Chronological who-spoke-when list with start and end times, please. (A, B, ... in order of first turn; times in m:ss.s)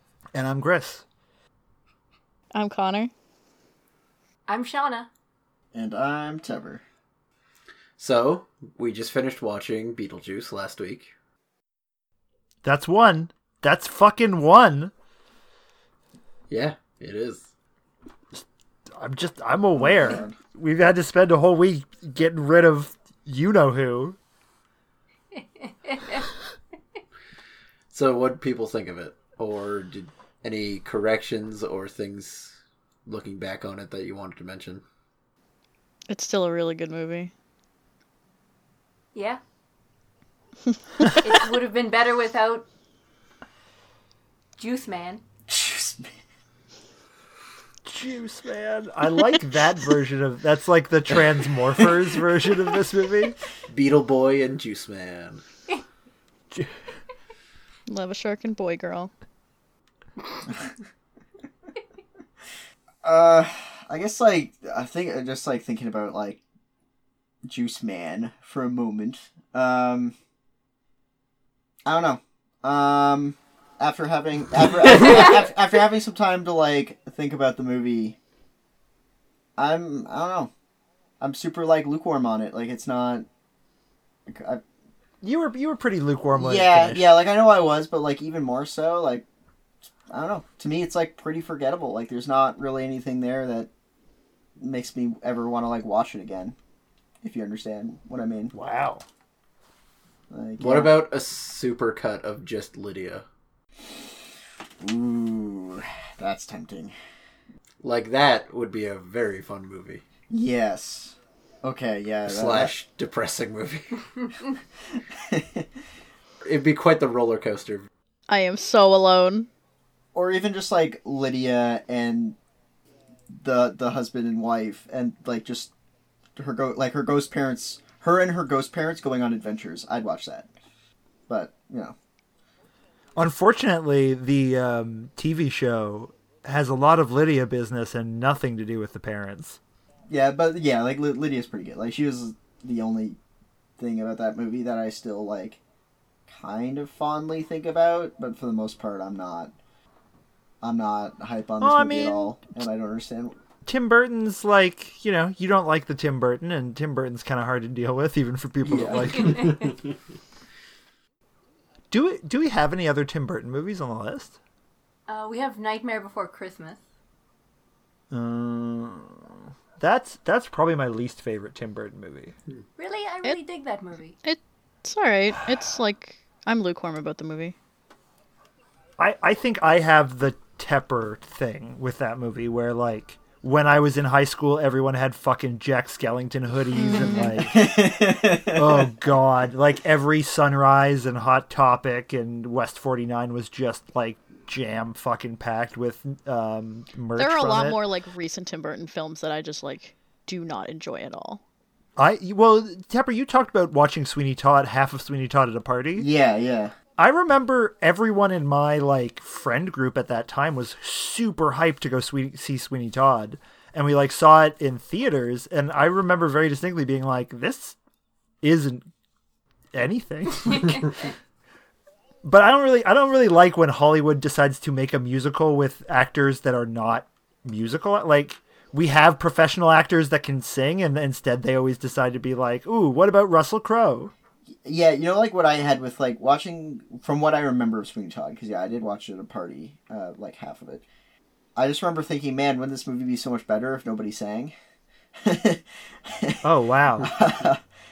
0:00.3-0:01.0 A
0:02.5-0:03.1 B
0:04.5-0:05.1 C
0:05.7-0:06.8 D
0:08.0-0:11.1 E
0:12.6-0:14.9 A
0:16.5-0:17.5 E
0:19.0-0:24.2 A
0:19.8-0:20.3 D
0:25.4-0:26.3 C
0:27.9-0:34.8 E
0:36.1-0:37.3 B
0:39.2-0:39.4 C
0:41.2-0:42.7 C
0:44.6-0:45.2 C
0:45.5-0:46.1 D
0:47.9-0:53.4 A
0:53.7-0:55.4 E
0:57.9-0:59.1 B
1:03.0-1:06.4 D
1:07.4-1:10.1 D
1:11.8-1:18.2 D
1:19.6-1:20.5 D
1:21.2-1:23.3 D
1:24.3-1:24.6 D
1:25.2-1:27.2 A
1:26.3-1:29.2 D
1:30.1-1:33.7 D
1:34.6-1:36.6 D
1:37.2-1:38.5 D
1:38.5-1:39.0 A
1:40.3-1:41.0 D
1:40.6-1:43.3 E
1:44.8-1:46.9 D
1:47.8-1:50.0 E
1:50.3-1:52.8 D
1:52.3-1:54.1 E
1:55.2-1:55.7 D
1:56.4-1:57.9 E
1:58.3-1:59.5 B
2:00.1-2:02.4 D
2:03.3-2:05.7 D
2:06.4-2:10.5 D
2:11.3-2:12.0 D
2:13.2-2:19.6 A
2:20.1-2:23.2 D
2:23.8-2:25.6 D
2:26.3-2:29.5 D
2:30.6-2:33.4 D
2:31.6-2:32.4 A
2:33.6-2:39.6 A
2:38.6-2:39.0 D
2:41.9-2:44.4 A
2:45.1-2:46.8 C
2:48.1-2:52.3 A
2:52.8-2:54.2 C
2:54.2-2:57.6 B
2:59.0-3:07.7 A
3:06.8-3:07.3 B
3:07.4-3:08.9 D
3:08.6-3:17.8 A
3:17.2-3:21.4 B
3:22.0-3:26.1 A
3:26.0-3:26.7 D
3:27.0-3:37.8 A
3:38.4-3:38.9 A
3:39.7-3:41.1 A
3:42.2-3:54.1 A
3:54.6-4:00.8 D
4:01.6-4:04.5 D
4:05.2-4:06.4 D
4:06.4-4:07.2 A
4:07.0-4:07.6 D